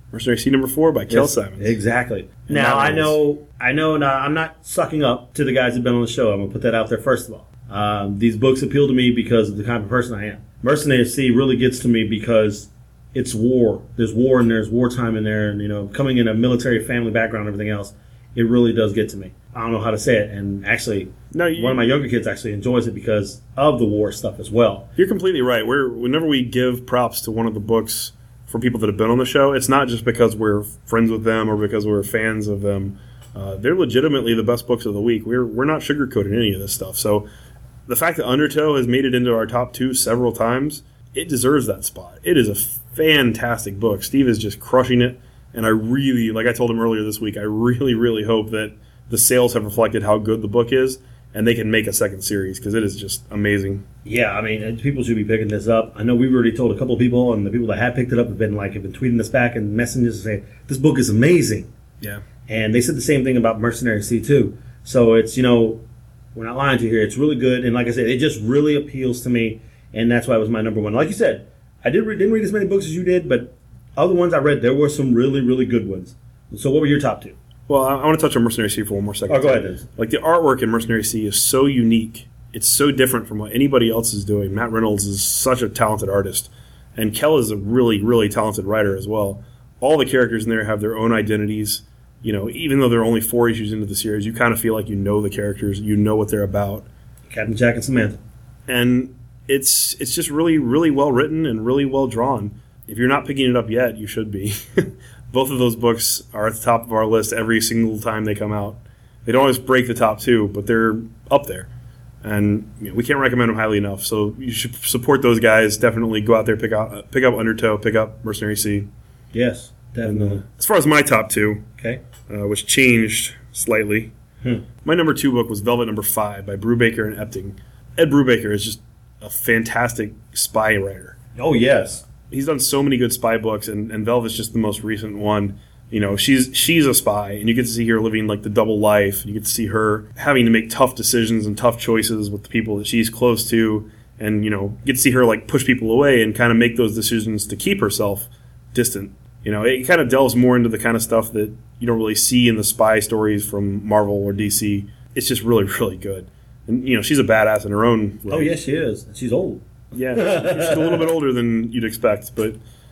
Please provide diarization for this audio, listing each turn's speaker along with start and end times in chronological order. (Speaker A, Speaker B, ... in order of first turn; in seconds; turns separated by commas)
Speaker A: 0.1-1.8, Speaker B: 1.1-24.9, Speaker A: 2.5-3.2, Speaker A: 21.3-21.9, Speaker A: 25.0-37.3, Speaker A: 37.9-53.8, Speaker B: 54.0-61.7, Speaker B: 62.5-65.8, Speaker B: 66.3-77.4, Speaker A: 77.7-96.9, Speaker B: 79.3-79.8, Speaker B: 97.3-98.2, Speaker A: 98.7-111.7, Speaker A: 112.2-118.9, Speaker B: 119.3-120.4, Speaker A: 120.0-121.7, Speaker A: 122.3-124.1, Speaker A: 124.8-131.2, Speaker B: 131.3-132.1, Speaker A: 132.3-158.5, Speaker B: 158.3-161.1, Speaker A: 159.9-162.6